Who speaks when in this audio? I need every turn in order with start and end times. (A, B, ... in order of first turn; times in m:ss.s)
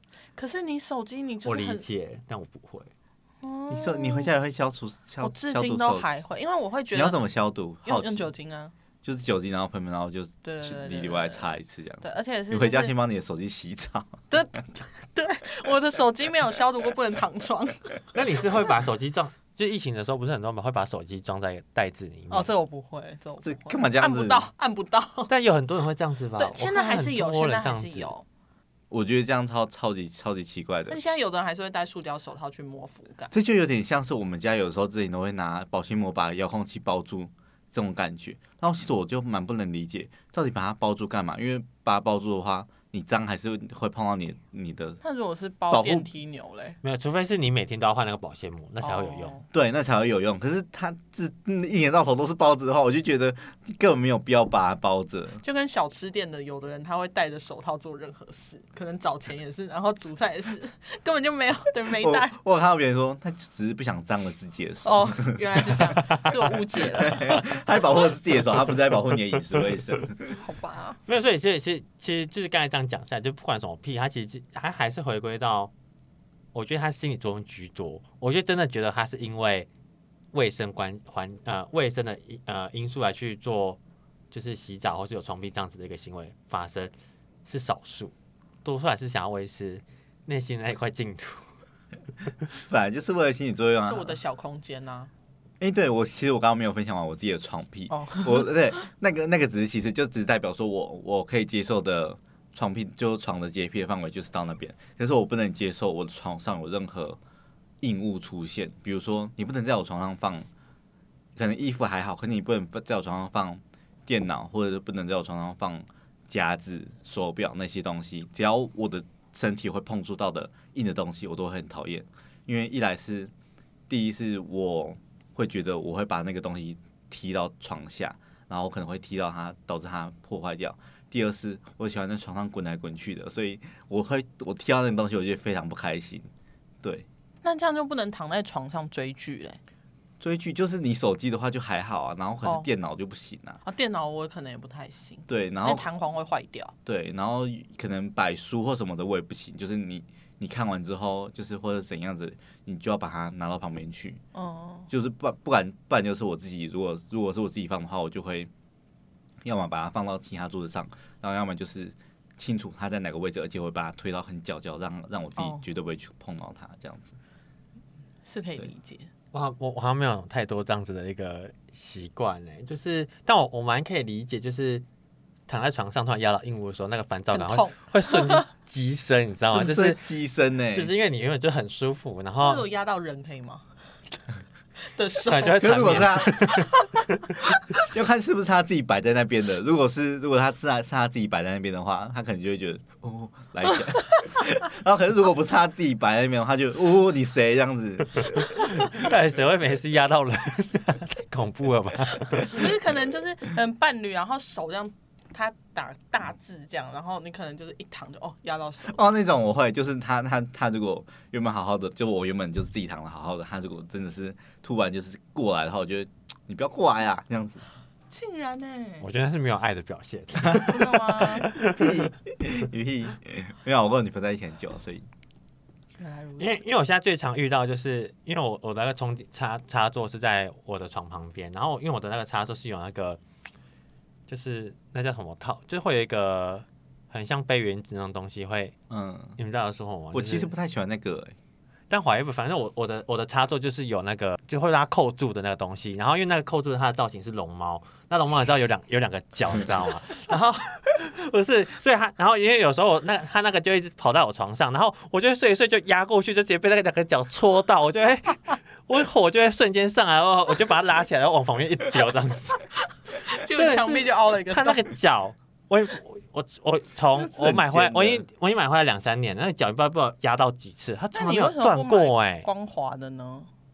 0:00.4-0:01.8 A
0:01.4-0:02.9 B
0:03.4-0:04.3 A
0:03.7-0:06.1 C
0:05.2-0:07.2 A
0:06.9-0:08.3 C
0:07.8-0:08.7 A
0:09.0-0:14.2 C
0:10.4-0:11.5 A
0:12.0-0:12.9 A
0:14.3-0:18.0 A
0:18.1-0:22.5 B
0:22.3-0:25.3 A
0:23.4-0:24.5 C
0:25.3-0:28.1 B
0:26.4-0:28.2 A
0:28.9-0:31.0 C
0:30.9-0:33.3 A
0:33.3-0:45.0 C
0:45.0-0:46.8 A
0:45.7-0:46.0 C
0:46.8-0:49.4 B
0:48.8-0:49.4 A
0:49.5-0:55.4 C
0:55.4-1:02.4 A
1:02.0-1:06.0 C
1:04.8-1:07.5 A
1:07.0-1:10.4 C
1:10.4-1:11.0 A
1:11.1-1:15.7 B
1:16.5-1:19.7 B
1:20.3-1:23.8 B
1:24.3-1:26.9 B
1:27.4-1:31.4 B
1:32.7-1:34.2 C
1:33.8-1:35.1 A
1:35.6-1:47.2 C
1:37.9-1:38.5 A
1:47.8-1:50.5 C
1:51.4-2:03.3 C
2:03.9-2:16.3 C
2:17.4-2:19.6 A
2:20.2-2:23.6 C
2:23.6-2:26.7 A
2:25.3-2:25.8 C
2:26.8-2:34.2 C
2:34.3-2:34.9 A
2:34.9-2:38.5 C
2:39.4-2:47.2 C
2:48.2-2:49.1 A
2:49.3-2:54.8 B
2:55.5-3:00.0 B
2:57.3-2:58.4 A
2:59.5-3:00.9 C
3:00.7-3:02.6 B
3:02.4-3:03.6 A
3:04.8-3:06.9 A
3:05.2-3:06.7 B
3:05.5-3:06.6 C
3:07.8-3:18.9 C
3:18.6-3:22.6 B
3:22.3-3:29.1 A
3:28.9-3:37.6 C
3:38.1-3:39.0 A
3:39.0-3:42.0 B
3:40.6-3:41.5 A
3:41.7-3:45.0 C
3:46.0-3:46.6 A
3:46.4-3:53.2 B
3:54.3-3:58.7 B
3:58.9-3:59.4 C
3:59.4-4:00.5 B
4:00.1-4:01.3 C
4:01.9-4:22.6 B
4:23.1-4:24.9 A
4:23.5-4:32.5 B
4:27.1-4:28.2 C
4:31.1-4:33.5 A